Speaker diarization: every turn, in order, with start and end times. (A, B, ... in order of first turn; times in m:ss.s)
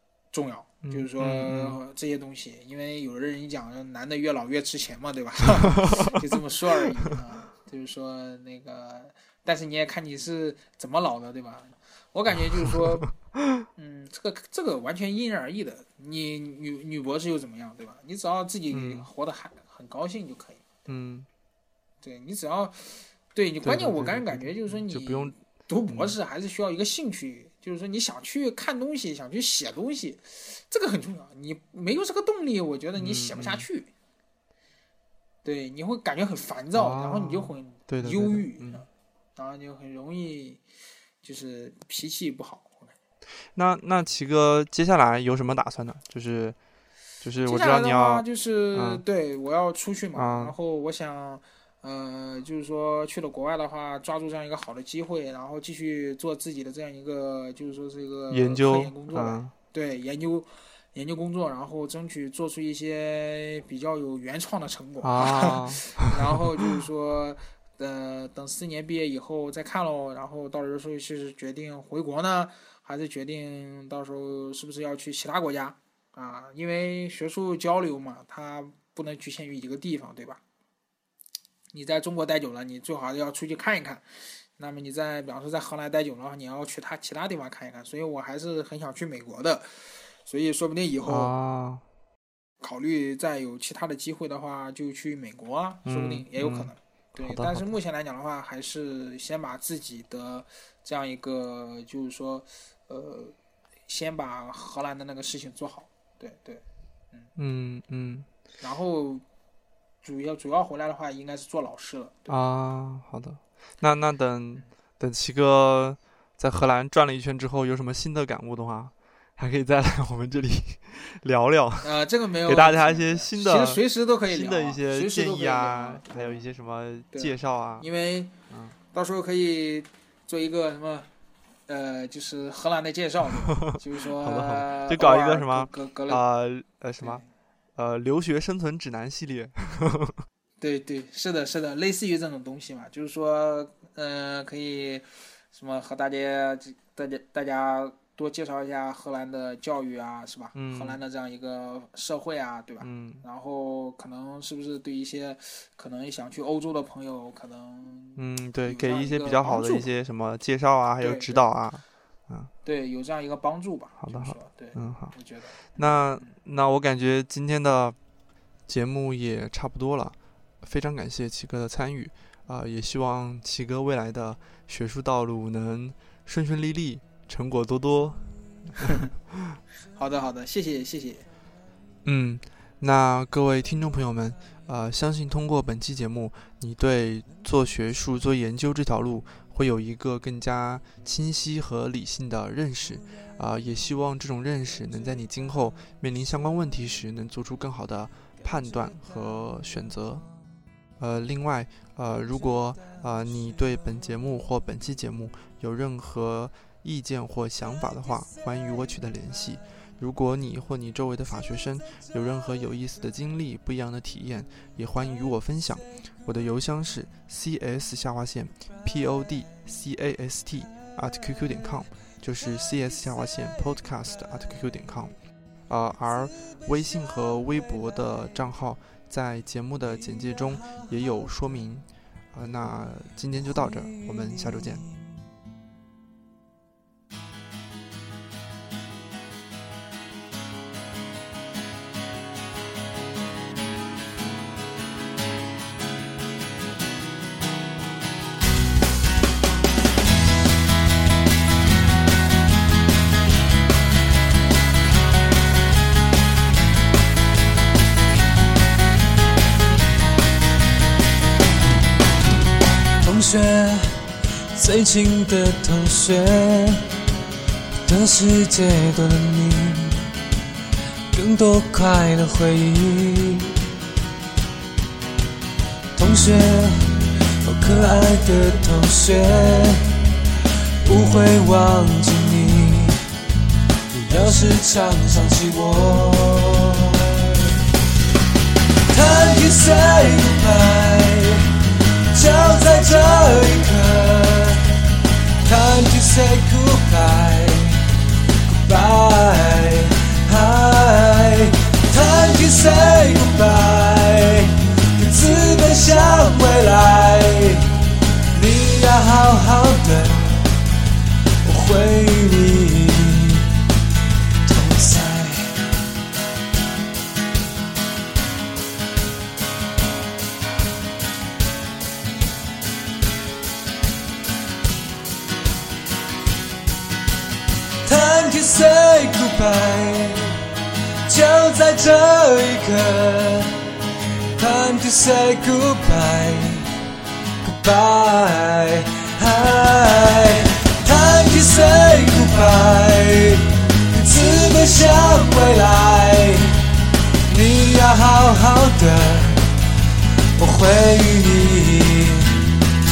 0:00.3-0:13.1 A
0:00.8-0:01.8 B
0:05.8-0:06.2 B
0:13.8-0:20.9 A
0:18.7-0:19.1 B
0:20.9-0:21.3 B
0:22.0-0:33.9 A
0:23.6-0:25.4 B
0:25.9-0:26.1 B
0:33.0-0:33.7 B
0:35.4-0:40.6 A
0:36.8-0:38.8 B
0:41.2-0:42.9 A
0:43.6-0:46.6 B
0:47.2-0:49.0 B
0:47.5-1:20.4 A
0:50.2-0:50.6 B
0:58.3-0:59.5 B
1:05.0-1:06.0 B
1:21.7-1:31.3 A
1:31.1-1:31.8 B
1:32.6-1:43.4 A
1:35.9-1:37.7 B
1:43.9-1:47.3 A
1:47.4-1:48.3 B
1:48.6-1:49.2 A
1:50.0-1:52.4 A
1:52.3-2:01.9 B
2:01.8-2:06.4 A
2:02.5-2:07.9 B
2:07.1-2:08.4 A
2:08.5-2:08.8 B
2:08.9-2:11.1 A
2:11.7-2:16.2 A
2:13.6-2:17.2 B
2:17.0-2:17.3 A
2:17.8-2:20.2 B
2:20.6-2:39.9 A
2:30.6-2:31.0 B
2:32.8-2:33.2 B
2:38.2-2:42.5 B
2:41.0-2:41.4 A
2:42.6-2:46.4 A
2:44.0-2:45.2 B
2:45.7-2:48.0 B
2:48.7-2:58.8 B
3:00.0-3:01.3 A
3:02.0-3:20.3 B
3:21.0-3:45.1 B
3:45.7-3:54.9 B
4:23.0-4:26.9 C
4:27.9-4:30.1 C
4:31.1-4:33.5 C
4:36.0-4:39.9 C
4:40.8-4:43.0 C
4:43.9-4:47.5 C
4:48.9-4:51.5 C
4:52.1-4:54.6 C
4:55.4-4:57.8 C
4:58.6-5:07.7 C
5:08.3-5:10.4 C
5:11.4-5:13.5 C
5:14.4-5:15.6 C
5:27.8-5:30.4 C
5:31.1-5:33.5 C
5:34.4-5:36.7 C
5:37.4-5:46.6 C
5:47.3-5:49.5 C
5:50.4-5:52.4 C